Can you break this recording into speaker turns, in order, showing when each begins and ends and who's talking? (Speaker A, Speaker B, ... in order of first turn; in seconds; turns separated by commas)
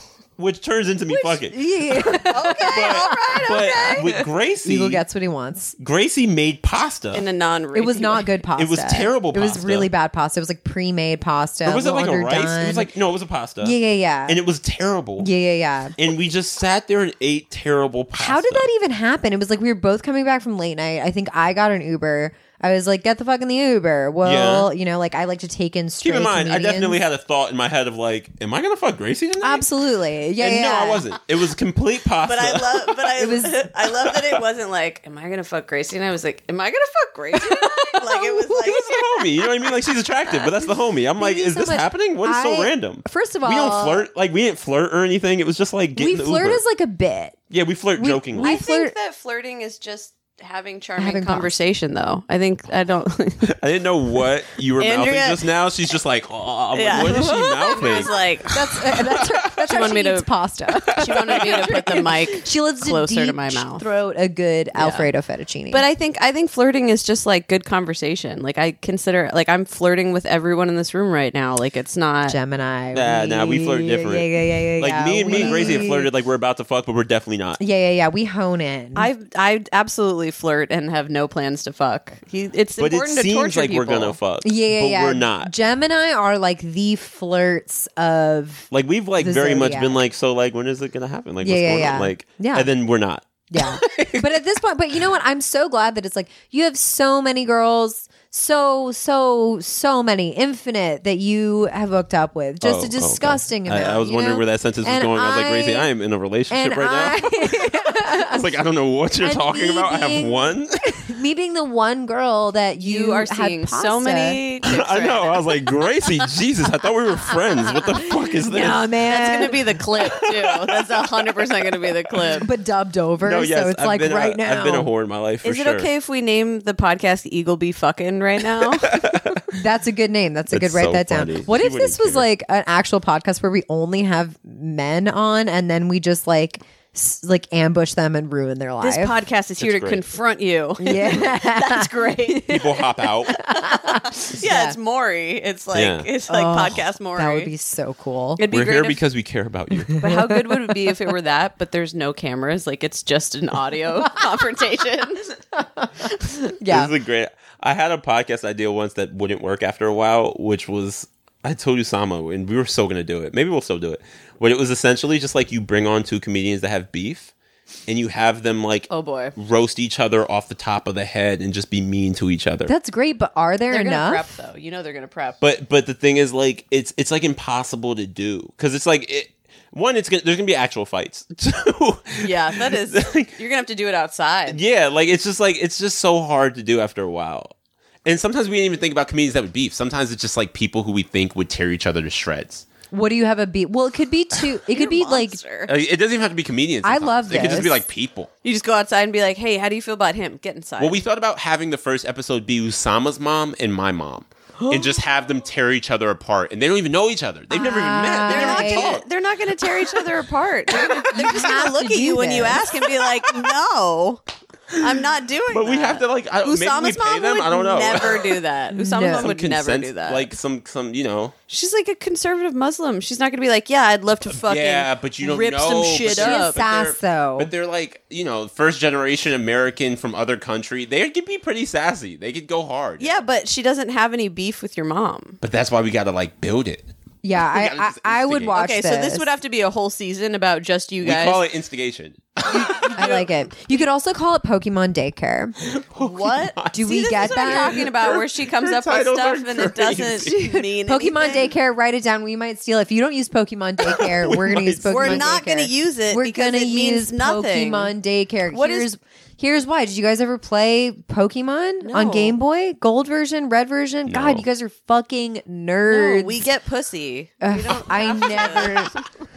Speaker A: 0.4-5.0, Speaker B: 1.1-5.8, Speaker C: 2.2-4.2, Speaker A: 5.8-7.2, Speaker C: 7.1-8.3, Speaker B: 7.7-12.9, Speaker A: 8.6-9.9, Speaker A: 11.6-15.3, Speaker B: 13.6-14.4, Speaker B: 15.2-15.9, Speaker A: 16.0-18.6, Speaker B: 18.2-27.0, Speaker A: 24.2-24.7, Speaker A: 26.0-29.8, Speaker B: 29.4-31.1, Speaker A: 30.4-33.0, Speaker C: 32.2-39.2, Speaker B: 33.2-33.5, Speaker B: 37.9-38.7, Speaker A: 38.6-46.6, Speaker B: 41.2-44.1, Speaker B: 46.0-47.4, Speaker A: 47.5-48.6, Speaker B: 48.0-48.9, Speaker C: 48.4-53.5, Speaker B: 51.0-51.5, Speaker A: 53.5-59.5, Speaker C: 54.8-55.4, Speaker C: 56.7-58.5, Speaker B: 56.9-57.4, Speaker B: 58.5-65.8, Speaker C: 59.6-60.3, Speaker A: 60.8-61.8, Speaker C: 60.9-63.8, Speaker C: 64.8-65.1, Speaker C: 65.7-72.4, Speaker B: 72.3-76.1, Speaker A: 72.9-77.6, Speaker C: 75.3-75.9, Speaker B: 77.6-79.1, Speaker C: 78.9-84.2, Speaker A: 82.8-85.5, Speaker B: 84.4-88.7, Speaker A: 88.7-94.3, Speaker B: 89.2-90.0, Speaker B: 91.4-92.7, Speaker B: 93.5-105.9, Speaker A: 102.6-111.0, Speaker B: 106.5-108.5, Speaker B: 109.2-114.4, Speaker C: 112.8-115.5, Speaker A: 114.6-118.9, Speaker B: 117.3-119.7, Speaker C: 118.5-122.5, Speaker A: 120.0-121.5, Speaker B: 122.4-124.9, Speaker A: 123.2-125.9, Speaker C: 125.4-129.2, Speaker A: 128.8-129.5, Speaker B: 129.5-139.1, Speaker A: 130.5-132.2, Speaker C: 138.8-147.5, Speaker A: 139.6-140.0, Speaker B: 140.8-144.8, Speaker A: 142.4-143.5, Speaker A: 145.7-146.1, Speaker B: 146.3-148.4, Speaker C: 148.4-149.0, Speaker A: 148.5-150.1, Speaker B: 149.9-151.0, Speaker C: 150.0-155.4, Speaker B: 155.6-156.9, Speaker A: 156.7-167.3, Speaker A: 167.9-172.7, Speaker C: 168.9-169.3, Speaker B: 172.7-174.3, Speaker C: 173.7-175.4, Speaker A: 175.4-183.3, Speaker C: 182.2-184.6, Speaker A: 184.5-187.5, Speaker A: 188.1-192.7, Speaker B: 192.9-195.4, Speaker C: 194.7-195.7, Speaker A: 195.7-198.3, Speaker B: 196.8-197.8, Speaker C: 198.4-201.0, Speaker A: 200.8-209.1, Speaker B: 204.6-205.0, Speaker B: 207.5-209.0, Speaker C: 208.2-214.2, Speaker A: 210.8-211.4, Speaker B: 211.1-212.7, Speaker C: 214.7-220.3, Speaker A: 215.5-218.4, Speaker B: 218.7-219.3, Speaker A: 219.0-221.3, Speaker C: 221.5-226.6, Speaker A: 224.3-233.2, Speaker B: 226.1-227.5, Speaker C: 233.0-235.4, Speaker A: 235.4-238.6, Speaker B: 237.2-239.3, Speaker C: 238.5-241.4, Speaker A: 241.0-243.2, Speaker B: 242.5-245.6, Speaker C: 242.7-243.2, Speaker A: 245.6-250.6, Speaker C: 246.0-251.5, Speaker B: 246.7-247.9, Speaker B: 250.8-266.5, Speaker A: 253.9-255.4, Speaker C: 254.9-257.9, Speaker C: 258.5-258.9, Speaker C: 261.8-262.4, Speaker A: 264.1-264.4, Speaker C: 265.9-269.0, Speaker B: 267.4-268.9